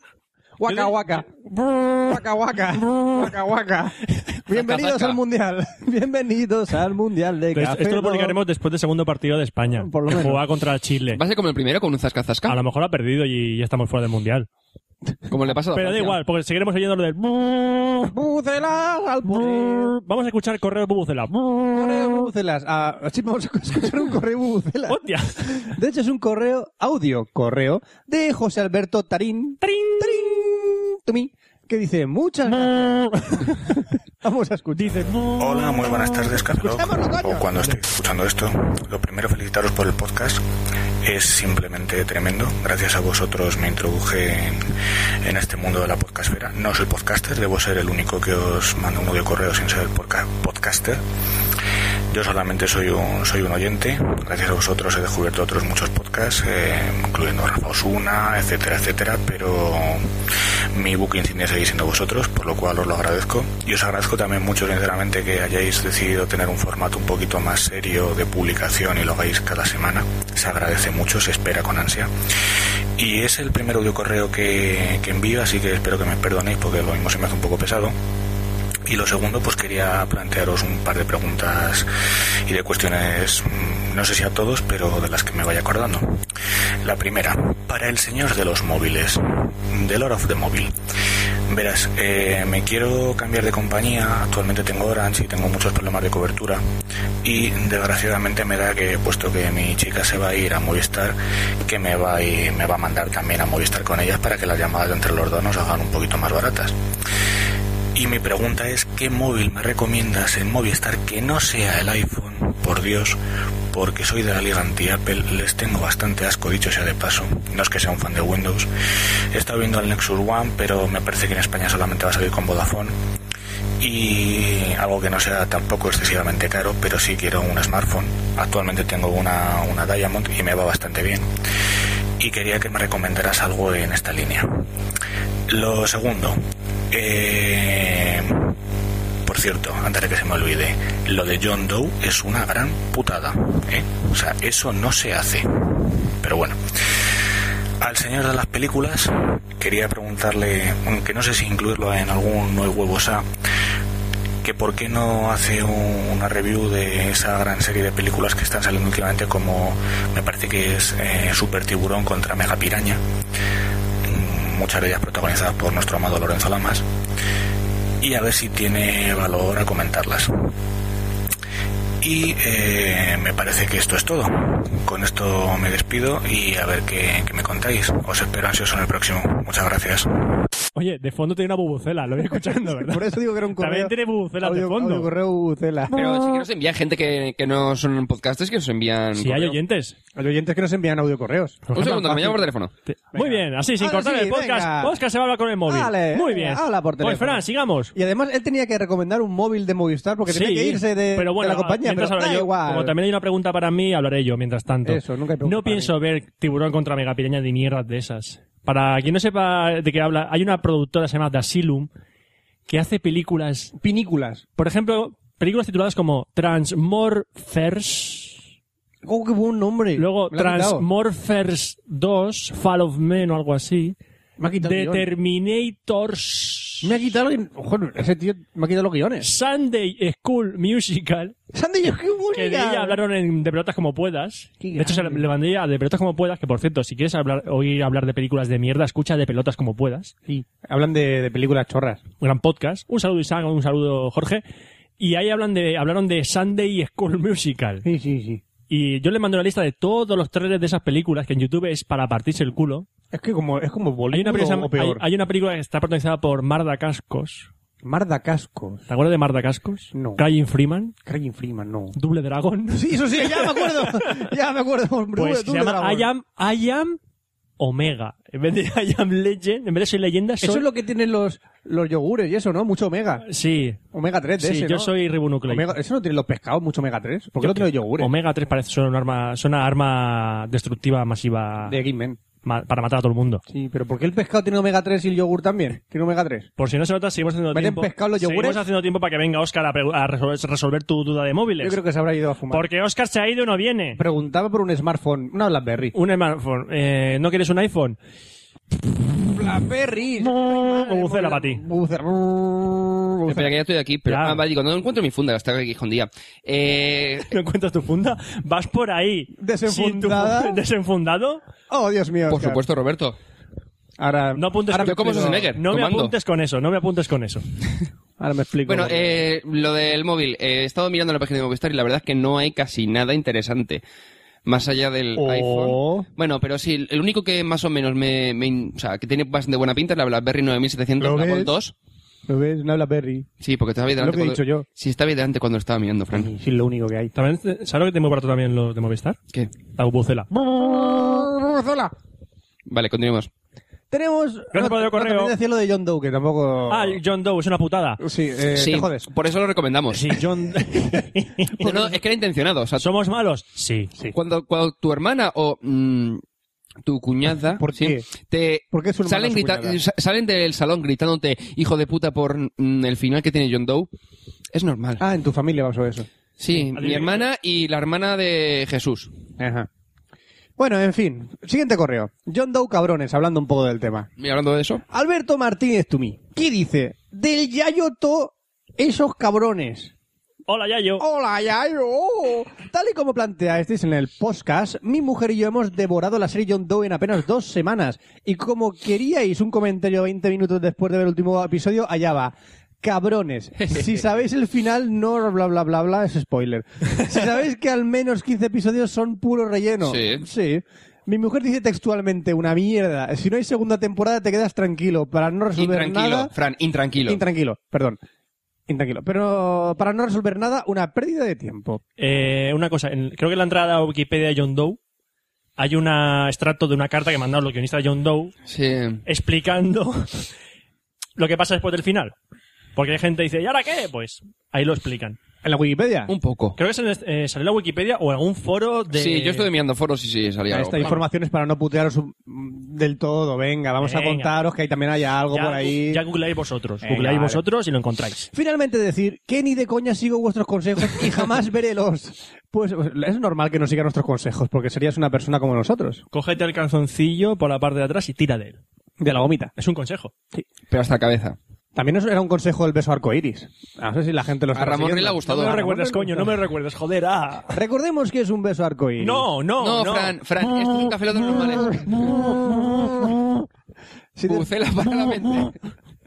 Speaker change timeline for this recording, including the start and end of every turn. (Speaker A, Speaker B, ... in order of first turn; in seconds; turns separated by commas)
Speaker A: 0.6-8.4, Speaker B: 4.5-5.2, Speaker C: 7.5-11.2, Speaker A: 9.8-10.4, Speaker B: 11.1-12.6, Speaker C: 12.5-14.5, Speaker B: 15.3-16.2, Speaker C: 15.7-18.1, Speaker A: 18.1-19.9, Speaker C: 19.9-21.6, Speaker A: 21.7-35.2, Speaker C: 24.9-25.7, Speaker C: 29.6-30.4, Speaker C: 34.8-35.8, Speaker D: 35.4-40.4, Speaker A: 36.6-37.5, Speaker D: 41.0-51.0, Speaker D: 52.1-60.1, Speaker D: 60.7-72.1, Speaker D: 73.0-77.9, Speaker D: 78.9-81.9, Speaker D: 82.5-86.2, Speaker D: 86.8-90.7, Speaker D: 91.5-96.6, Speaker D: 97.2-106.7, Speaker D: 107.9-113.2, Speaker D: 113.7-118.7, Speaker D: 119.3-122.9, Speaker D: 123.8-131.3, Speaker D: 132.2-134.7, Speaker D: 135.5-136.4, Speaker D: 136.9-138.6, Speaker D: 139.2-146.6, Speaker D: 147.8-153.3, Speaker D: 154.4-163.0, Speaker D: 164.0-166.8, Speaker D: 168.0-170.5, Speaker D: 172.0-180.3, Speaker C: 180.7-185.1, Speaker A: 182.5-185.9, Speaker B: 185.9-189.6, Speaker C: 189.2-190.0, Speaker A: 190.2-192.4, Speaker C: 191.7-192.3, Speaker B: 191.7-192.7, Speaker C: 192.9-197.9, Speaker A: 193.1-194.9, Speaker A: 195.7-197.4, Speaker A: 197.9-202.9, Speaker C: 200.3-211.9, Speaker A: 204.8-205.9, Speaker C: 212.7-213.7, Speaker A: 213.8-214.4, Speaker C: 214.6-218.4, Speaker A: 219.0-220.8, Speaker C: 220.0-223.9, Speaker A: 224.4-225.1, Speaker C: 224.6-226.9, Speaker A: 226.8-229.3, Speaker C: 229.2-231.3, Speaker A: 231.5-233.0, Speaker C: 232.3-240.1, Speaker A: 234.6-235.2, Speaker A: 240.3-242.0, Speaker C: 242.2-244.4, Speaker C: 245.0-247.8, Speaker A: 247.8-248.4, Speaker C: 248.7-252.9, Speaker A: 253.1-255.0, Speaker C: 254.1-257.5, Speaker A: 257.8-258.8, Speaker C: 258.9-260.9, Speaker A: 259.9-260.2, Speaker A: 261.0-261.9, Speaker C: 261.9-264.3, Speaker A: 262.7-266.1, Speaker C: 265.1-267.0, Speaker C: 267.6-270.6, Speaker A: 270.4-273.2, Speaker C: 273.2-273.8, Speaker A: 273.9-274.9, Speaker C: 274.4-275.8, Speaker A: 275.5-278.1, Speaker C: 277.4-281.8, Speaker A: 281.7-282.2, Speaker C: 282.4-283.4, Speaker A: 283.5-286.5, Speaker C: 286.6-291.8, Speaker A: 287.5-288.6, Speaker A: 291.6-292.6, Speaker C: 292.5-294.0, Speaker A: 293.9-295.9, Speaker C: 295.9-298.0, Speaker A: 299.2-303.5, Speaker C: 300.3-301.6, Speaker B: 303.2-307.3, Speaker C: 304.1-304.4, Speaker C: 307.3-311.4, Speaker A: 309.4-310.6, Speaker A: 311.7-312.6, Speaker B: 312.3-313.1, Speaker A: 314.0-315.5, Speaker C: 314.4-317.4, Speaker B: 314.8-316.1, Speaker A: 318.2-319.2, Speaker B: 318.7-323.8, Speaker B: 324.4-331.7, Speaker A: 325.2-326.1, Speaker A: 331.0-331.5, Speaker A: 332.3-333.3, Speaker B: 333.4-336.3, Speaker A: 334.0-334.6, Speaker A: 336.1-337.1, Speaker C: 337.1-339.2, Speaker C: 339.8-340.3, Speaker A: 340.3-341.9, Speaker B: 342.7-343.3, Speaker A: 343.9-347.0, Speaker C: 344.5-345.3, Speaker C: 346.7-348.0, Speaker A: 348.0-349.1, Speaker B: 348.5-350.1, Speaker C: 349.9-351.5, Speaker A: 351.6-351.9, Speaker B: 351.6-352.8, Speaker C: 352.8-353.9, Speaker B: 354.1-356.2, Speaker B: 356.8-363.9, Speaker A: 357.6-358.1, Speaker A: 358.7-359.8, Speaker B: 364.5-365.0, Speaker A: 365.0-366.1, Speaker B: 366.4-369.1, Speaker C: 366.5-367.3, Speaker A: 369.4-369.7, Speaker A: 370.6-374.1, Speaker B: 374.2-374.8, Speaker A: 374.9-379.9, Speaker C: 380.5-381.0, Speaker A: 381.0-406.3, Speaker B: 393.6-394.0, Speaker B: 399.8-400.2, Speaker B: 405.5-407.2, Speaker A: 407.1-408.0, Speaker A: 408.7-411.8, Speaker C: 412.0-414.8, Speaker C: 415.6-418.3, Speaker B: 418.5-419.0, Speaker C: 419.1-420.2, Speaker C: 421.2-422.1, Speaker C: 422.8-425.2, Speaker A: 425.4-426.1, Speaker B: 426.1-426.6, Speaker C: 426.6-429.5, Speaker B: 428.9-431.0, Speaker A: 430.5-436.0, Speaker C: 433.8-434.4, Speaker C: 435.3-438.3, Speaker A: 436.8-437.4, Speaker A: 438.3-446.0, Speaker C: 446.1-448.6, Speaker A: 449.0-449.5, Speaker C: 449.6-450.1, Speaker B: 450.7-451.4, Speaker A: 451.7-456.4, Speaker B: 454.5-455.6, Speaker C: 455.3-457.6, Speaker A: 457.5-459.2, Speaker C: 459.0-460.1, Speaker B: 459.6-462.1, Speaker A: 462.1-463.1, Speaker A: 464.2-464.5, Speaker B: 464.3-465.6